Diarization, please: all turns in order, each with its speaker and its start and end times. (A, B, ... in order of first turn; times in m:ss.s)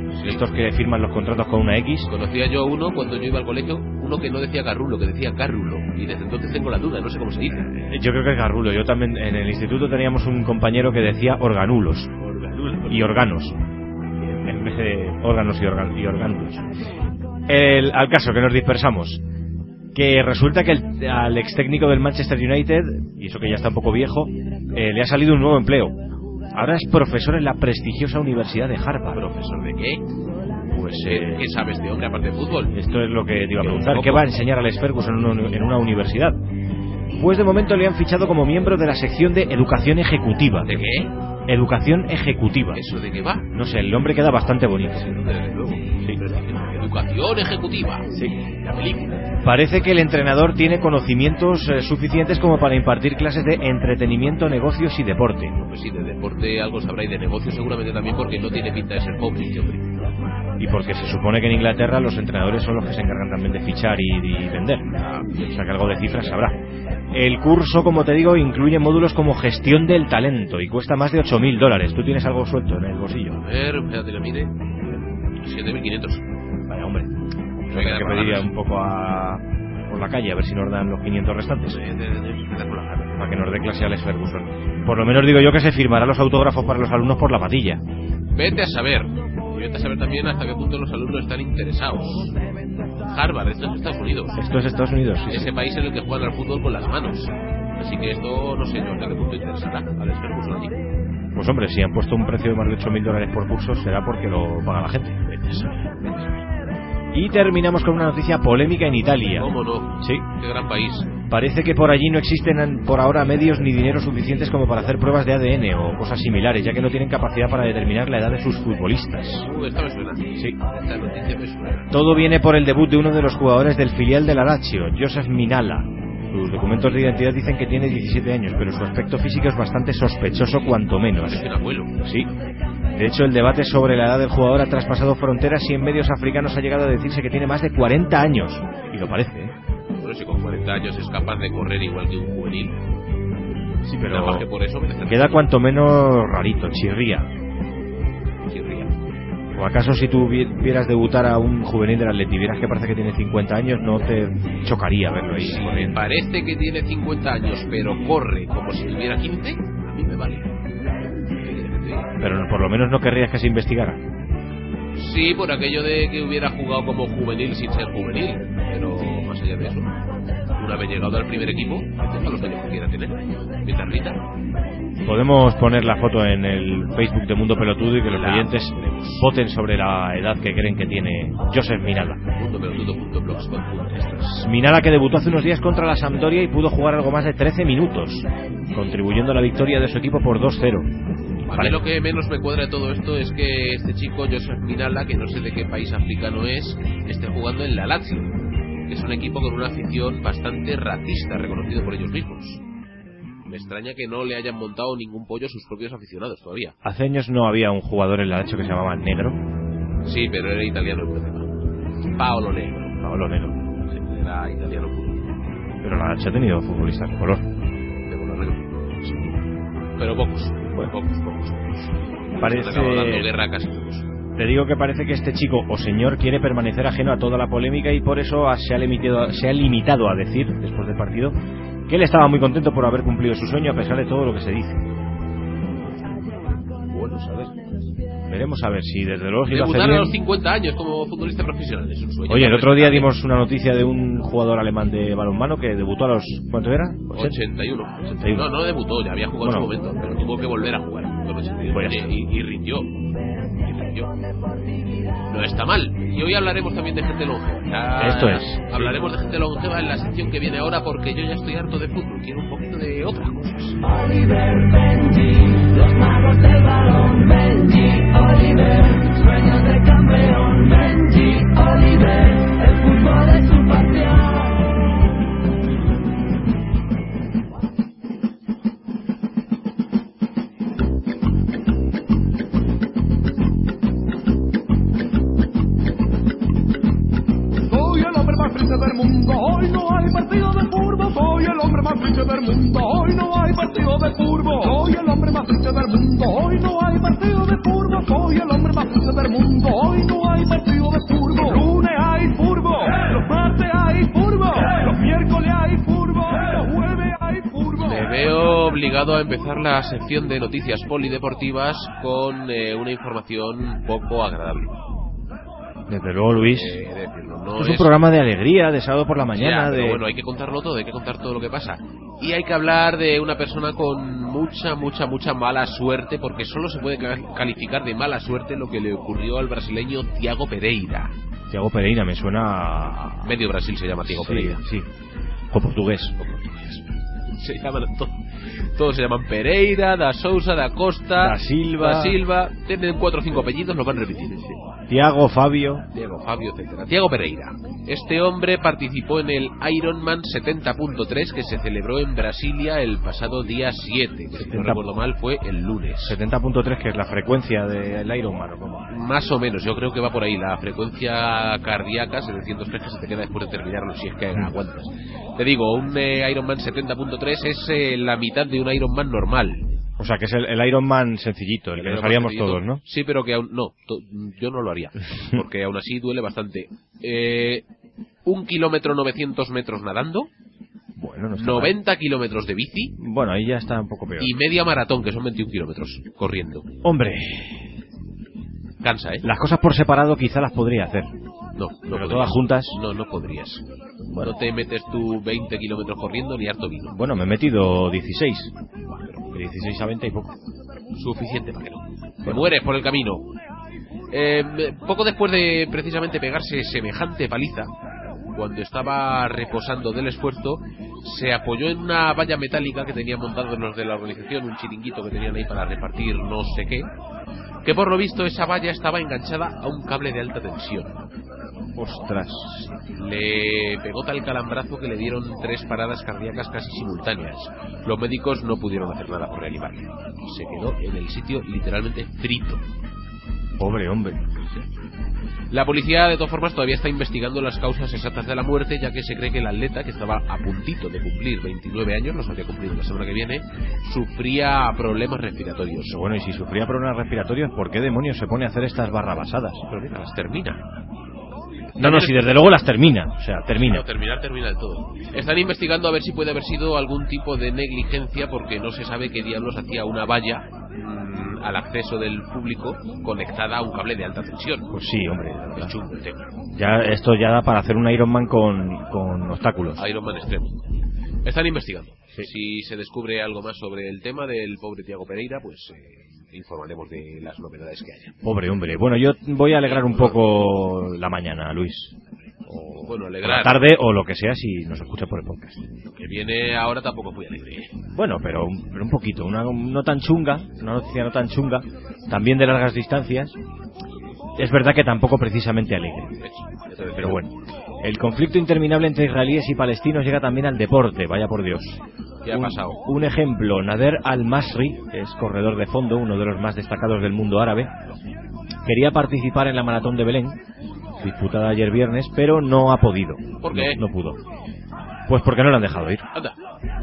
0:00.1-0:00.4 A
0:00.2-0:02.1 B
0:02.1-0:07.7 A
0:07.7-0:12.1 B
0:12.2-0:13.0 A
0:12.9-0:13.6 B
0:14.3-0:16.7 B
0:17.5-0:19.2 B
0:19.9-0:26.0 B
0:26.5-0:29.2 B
0:29.1-0:30.1 A
0:30.7-0:31.5 B
0:30.8-0:32.7 A
0:32.7-0:36.4 B
0:33.6-0:34.3 A
0:37.1-0:40.8 B
0:40.7-0:41.1 A
0:41.5-0:42.8 B
0:42.7-0:43.5 A
0:43.5-0:45.1 B
0:44.9-0:49.2 A
0:48.1-0:48.4 B
0:49.4-0:55.5 B
0:55.6-0:59.9 A
1:00.6-1:04.8 B
1:04.9-1:05.4 A
1:05.5-1:06.6 B
1:07.1-1:13.4 B
1:13.3-1:16.2 A
1:16.7-1:17.1 B
1:17.6-1:21.8 B
1:17.7-1:18.5 A
1:21.6-1:23.2 A
1:23.2-1:27.8 B
1:28.3-1:32.3 A
1:33.0-1:34.4 A
1:34.3-1:35.5 B
1:35.3-1:40.8 A
1:41.3-1:45.3 B
1:45.2-1:46.4 A
1:47.1-1:50.2 B
1:49.4-1:51.1 A
1:51.3-1:59.5 B
1:59.4-2:02.0 A
2:01.9-2:11.4 B
2:11.2-2:11.9 A
2:12.0-2:12.3 B
2:12.9-2:19.5 B
2:20.0-2:22.8 A
2:23.8-2:24.5 B
2:24.0-2:25.5 A
2:25.0-2:27.3 B
2:28.5-2:28.9 A
2:29.5-2:36.0 B
2:35.4-2:40.5 A
2:41.4-2:42.2 A
2:42.2-2:44.0 B
2:44.9-2:49.9 A
2:50.6-2:54.2 A
2:55.0-3:02.2 B
2:58.0-2:59.2 A
3:02.3-3:04.1 A
3:03.9-3:10.9 B
3:11.5-3:18.3 A
3:11.5-3:11.8 B
3:18.9-3:22.6 A
3:23.4-3:26.8 A
3:26.8-3:29.4 B
3:30.0-3:31.5 A
3:32.2-3:33.1 A
3:33.0-3:33.6 B
3:33.9-3:35.3 A
3:35.8-3:37.5 B
3:38.1-3:39.3 A
3:40.0-3:44.1 A
3:42.4-3:43.3 B
3:44.4-3:51.3 B
3:51.9-3:54.8 B
3:56.9-3:57.6 A
3:58.3-4:00.2 B
3:59.5-4:03.1 A
4:02.3-4:07.4 B
4:07.1-4:12.9 A
4:08.0-4:08.5 B
4:09.4-4:09.7 B
4:11.7-4:12.1 B
4:13.5-4:14.1 A
4:15.3-4:23.8 A
4:18.0-4:18.9 B
4:23.8-4:34.6 C
4:47.7-5:08.2 D
5:07.8-5:14.7 A
5:15.9-5:16.8 B
5:16.3-5:18.0 A
5:17.6-5:20.0 B
5:19.3-5:31.1 A
5:31.5-5:33.4 B
5:33.2-5:34.6 A
5:34.1-5:34.9 B
5:35.5-5:36.6 B
5:36.2-5:36.8 A
5:37.3-5:38.2 A
5:38.7-5:44.6 A
5:41.2-5:42.2 B
5:44.9-5:45.8 B
5:45.9-5:56.2 A
5:54.3-5:54.8 B
5:56.0-5:58.8 B
5:58.9-6:09.7 A
6:10.0-6:12.8 B
6:11.8-6:17.6 A
6:18.2-6:20.3 A
6:21.0-6:21.8 B
6:21.3-6:23.0 A
6:23.0-6:24.3 B
6:24.2-6:26.7 A
6:26.8-6:27.7 B
6:28.8-6:29.3 A
6:29.2-6:31.1 B
6:31.6-6:33.6 A
6:31.9-6:32.8 B
6:34.1-6:34.3 B
6:34.2-6:37.0 A
6:36.9-6:38.5 B
6:38.9-6:39.2 A
6:39.3-6:40.4 B
6:40.9-6:43.3 A
6:44.1-6:47.7 A
6:48.3-6:56.9 A
6:57.6-7:01.0 A
7:01.8-7:02.7 B
7:03.0-7:12.6 A
7:13.6-7:14.3 B
7:15.5-7:26.0 A
7:25.9-7:29.8 B
7:29.7-7:30.6 A
7:31.8-7:32.5 A
7:31.8-7:33.8 B
7:33.4-7:44.7 A
7:44.7-7:45.7 B
7:45.5-7:46.3 A
7:46.5-7:49.8 B
7:49.8-7:50.6 A
7:51.2-7:58.2 A
7:58.2-8:01.9 B
7:59.6-8:00.4 A
8:02.4-8:05.6 B
8:02.8-8:03.7 A
8:06.0-8:07.7 A
8:07.9-8:13.4 B
8:14.4-8:16.1 B
8:16.2-8:17.2 A
8:17.0-8:27.7 B
8:22.2-8:22.8 A
8:28.6-8:30.4 B
8:31.0-8:34.2 B
8:33.4-8:33.8 A
8:35.1-8:36.0 B